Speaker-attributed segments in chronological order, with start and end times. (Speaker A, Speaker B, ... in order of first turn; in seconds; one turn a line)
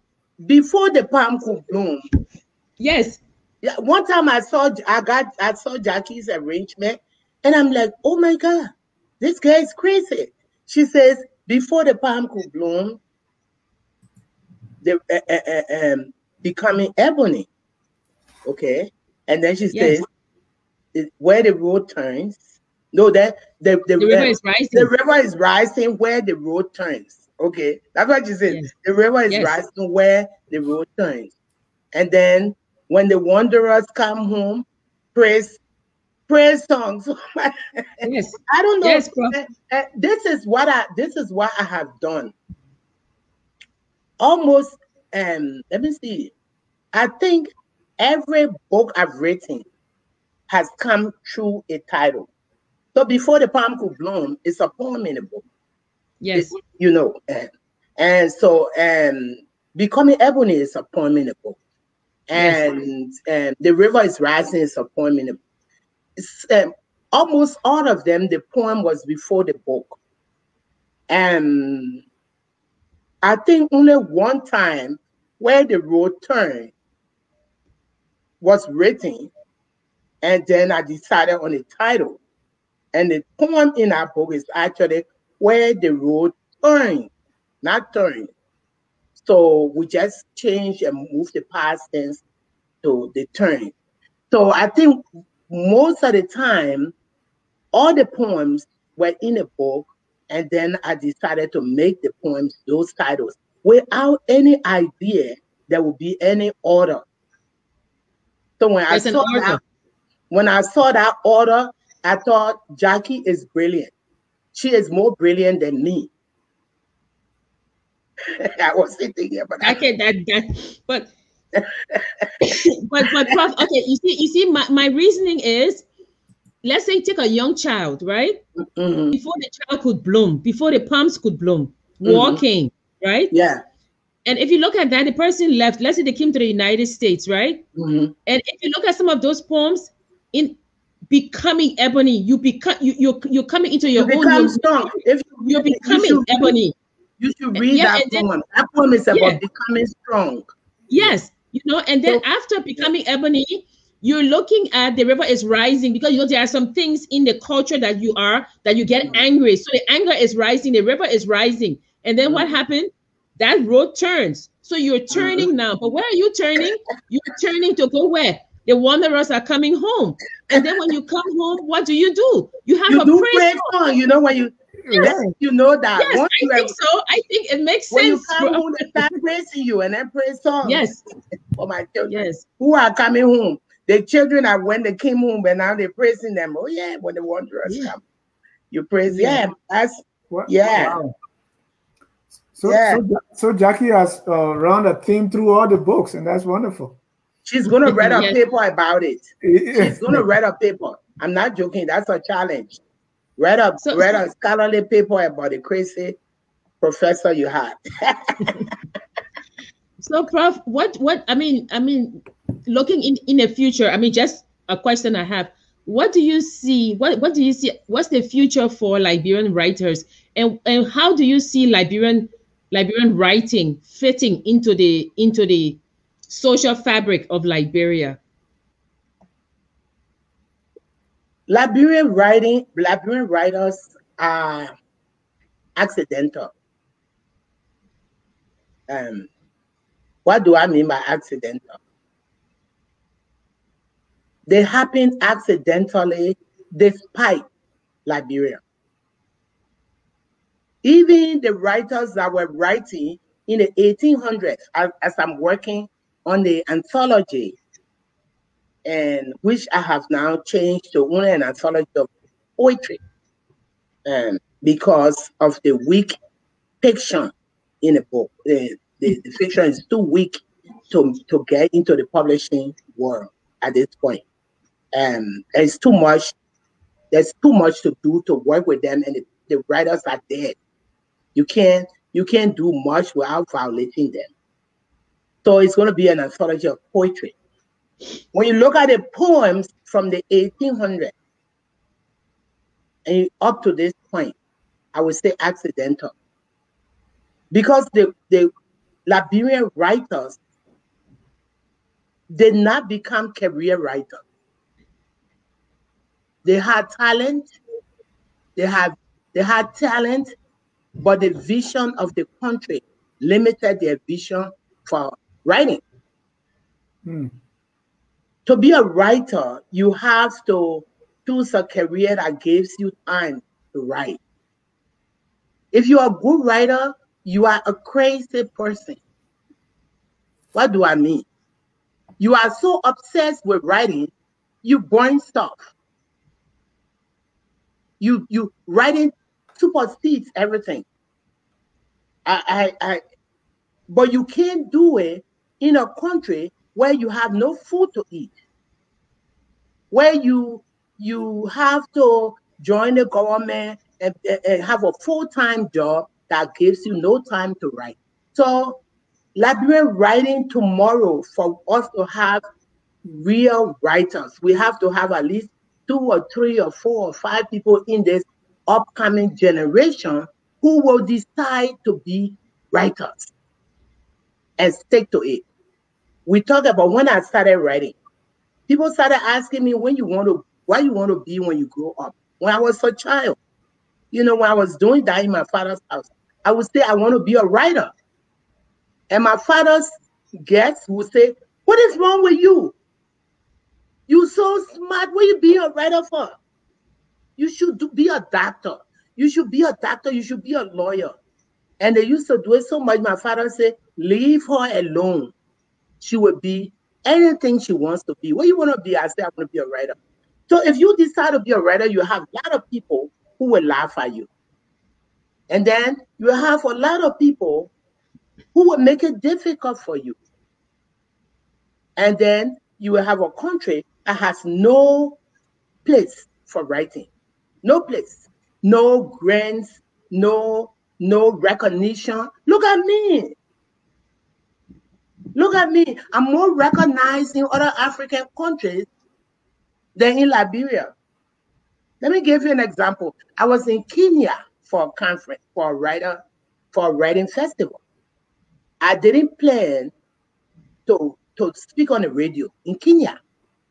Speaker A: 0.4-2.0
Speaker B: 2.8-3.2
Speaker A: 3.6-13.0
Speaker A: 14.8-17.5
Speaker A: 18.4-20.1
Speaker B: 19.7-20.0
Speaker A: 20.9-22.4
Speaker A: 22.9-31.3
Speaker B: 24.0-24.9
Speaker B: 29.3-29.6
Speaker A: 31.9-35.6
Speaker A: 36.3-42.3
Speaker B: 38.0-39.4
Speaker A: 44.2-46.3
Speaker A: 46.9-49.6
Speaker A: 50.5-52.3
Speaker A: 52.9-55.4
Speaker B: 56.2-56.5
Speaker A: 56.3-61.6
Speaker A: 62.3-65.4
Speaker B: 62.3-62.6
Speaker A: 66.2-70.0
Speaker A: 71.1-72.0
Speaker A: 73.2-76.7
Speaker A: 78.4-79.3
Speaker A: 80.2-82.2
Speaker A: 82.9-87.1
Speaker A: 87.6-88.3
Speaker A: 89.2-92.2
Speaker A: 92.8-93.7
Speaker A: 94.3-96.9
Speaker A: 97.7-107.0
Speaker A: 108.6-109.6
Speaker B: 108.9-109.6
Speaker A: 110.3-113.9
Speaker A: 114.5-116.1
Speaker A: 118.3-119.8
Speaker B: 119.6-121.1
Speaker A: 121.5-122.5
Speaker B: 122.4-125.8
Speaker B: 126.6-128.4
Speaker A: 128.7-129.2
Speaker B: 129.1-133.3
Speaker A: 132.0-132.4
Speaker A: 133.3-133.6
Speaker B: 134.2-137.6
Speaker A: 137.8-138.1
Speaker B: 138.2-140.6
Speaker B: 141.1-146.7
Speaker A: 144.0-146.5
Speaker A: 147.2-150.4
Speaker B: 147.5-148.3
Speaker B: 149.1-149.4
Speaker B: 150.9-173.7
Speaker A: 162.2-162.5
Speaker A: 165.1-165.5
Speaker A: 172.9-176.7
Speaker C: 174.8-175.3
Speaker B: 176.0-178.6
Speaker A: 177.9-180.9
Speaker B: 180.6-181.0
Speaker A: 181.5-188.0
Speaker B: 182.1-182.4
Speaker A: 188.7-191.0
Speaker B: 189.1-189.4
Speaker C: 190.3-191.1
Speaker C: 192.5-197.0
Speaker A: 192.6-193.0
Speaker A: 197.4-202.8
Speaker B: 197.8-198.3
Speaker C: 199.4-200.2
Speaker A: 203.4-206.2
Speaker B: 203.8-204.2
Speaker A: 206.8-208.6
Speaker B: 210.0-228.2
Speaker A: 231.5-234.7
Speaker A: 235.8-236.5
Speaker A: 238.9-239.3
Speaker A: 240.2-241.8
Speaker A: 244.4-247.4
Speaker A: 248.1-248.6
Speaker A: 250.8-257.6
Speaker A: 258.8-263.0
Speaker A: 264.1-266.1
Speaker A: 266.8-274.2
Speaker A: 274.9-276.3
Speaker A: 277.1-280.5
Speaker A: 281.3-284.3
Speaker A: 285.4-287.3
Speaker A: 288.3-291.1
Speaker A: 293.1-294.3
Speaker A: 294.9-296.1
Speaker A: 297.5-298.5
Speaker A: 299.1-300.4
Speaker A: 302.3-304.2
Speaker A: 306.4-307.6
Speaker A: 308.6-310.3
Speaker A: 311.0-315.8
Speaker C: 317.0-317.3
Speaker A: 318.4-324.2
Speaker A: 325.7-329.0
Speaker A: 330.5-331.2
Speaker A: 332.2-334.1
Speaker A: 334.6-335.7
Speaker A: 338.0-340.8
Speaker A: 342.2-343.0
Speaker A: 343.9-348.3
Speaker A: 349.9-358.8
Speaker A: 359.4-362.4
Speaker A: 363.0-373.3
Speaker A: 374.6-375.4
Speaker A: 376.2-377.9
Speaker A: 378.7-383.4
Speaker A: 384.1-387.9
Speaker A: 389.1-389.9
Speaker A: 390.4-392.7
Speaker A: 394.1-396.4
Speaker A: 397.4-401.1
Speaker A: 401.8-405.3
Speaker A: 406.0-409.9
Speaker A: 410.5-414.3
Speaker A: 415.5-417.7
Speaker A: 418.5-420.2
Speaker A: 422.0-425.2
Speaker A: 425.8-427.1
Speaker A: 427.6-433.3
Speaker A: 435.3-438.9
Speaker A: 439.9-440.9
Speaker A: 442.0-446.2
Speaker A: 446.7-447.8
Speaker A: 448.8-449.9
Speaker A: 450.9-453.1